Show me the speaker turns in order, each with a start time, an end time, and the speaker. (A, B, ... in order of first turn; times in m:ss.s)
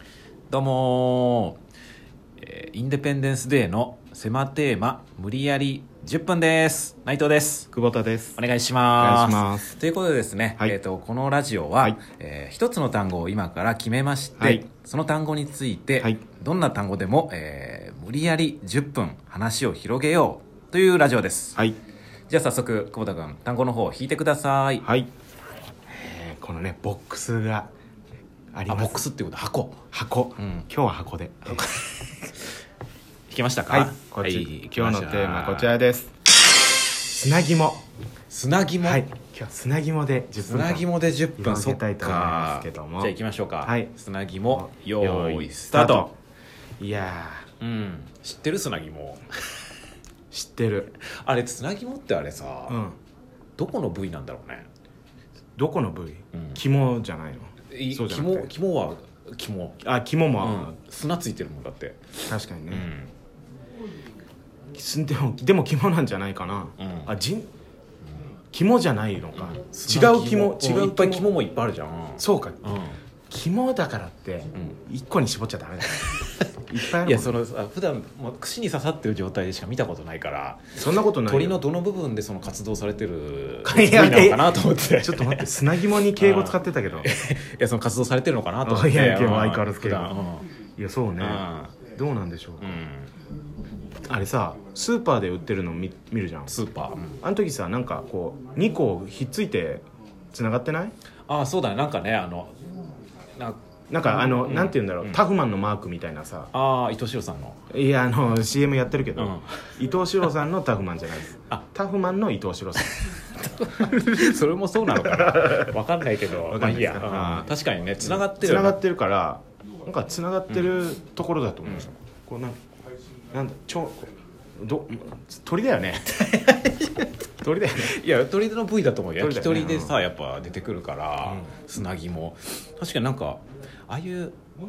0:00.5-0:01.6 A
0:02.4-0:07.7 A
0:07.7-0:08.4 B
0:08.4-0:21.6 A
0:09.0-0:09.8 B
0:14.4-0:14.6 B
0:22.3-0:24.8 A
0:24.8-0:25.1 B
0:25.9-0:27.7 B
0:28.5-0:29.0 B
0:28.7-0:29.8 A
0:29.9-0:31.7 B
0:30.4-0:30.7 A
0:31.5-0:31.8 A
0:33.3-0:35.7 A
0:33.7-0:36.1 B
0:37.0-0:37.8 B
0:38.3-0:39.1 A
0:38.8-0:43.9 B
0:40.4-0:46.1 A
0:44.5-0:46.1 B
0:46.8-0:47.5 B
0:47.6-0:49.3 A
0:50.3-0:50.9 B
0:51.1-0:52.8 A
0:52.7-0:53.0 B
0:53.6-0:54.7 A
0:55.6-0:58.5 B
0:57.7-0:59.8 A
0:59.8-1:00.8 B
1:00.4-1:02.2 A
1:02.3-1:02.9 B
1:02.7-1:03.1 A
1:04.7-1:07.5 B
1:06.8-1:07.1 A
1:08.5-1:11.4 B
1:09.3-1:13.0 A
1:12.2-1:12.6 B
1:13.3-1:16.1 B
1:16.0-1:25.5 A
1:16.7-1:17.4 B
1:20.8-1:21.6 B
1:23.6-1:27.3 B
1:26.2-1:30.5 A
1:28.6-1:30.2 B
1:30.8-1:32.8 B
1:31.2-1:31.8 A
1:32.6-1:33.1 A
1:34.1-1:36.5 B
1:36.5-1:37.2 A
1:37.2-1:40.9 B
1:41.3-1:42.5 A
1:43.9-1:46.5 B
1:44.4-1:45.2 A
1:46.5-1:47.6 A
1:47.7-1:52.9 B
1:49.2-1:49.6 A
1:52.8-1:58.8 A
1:54.9-1:55.8 B
1:56.3-2:02.6 B
2:03.3-2:06.2 B
2:06.2-2:07.1 A
2:07.4-2:08.0 B
2:07.8-2:14.4 A
2:09.2-2:10.0 B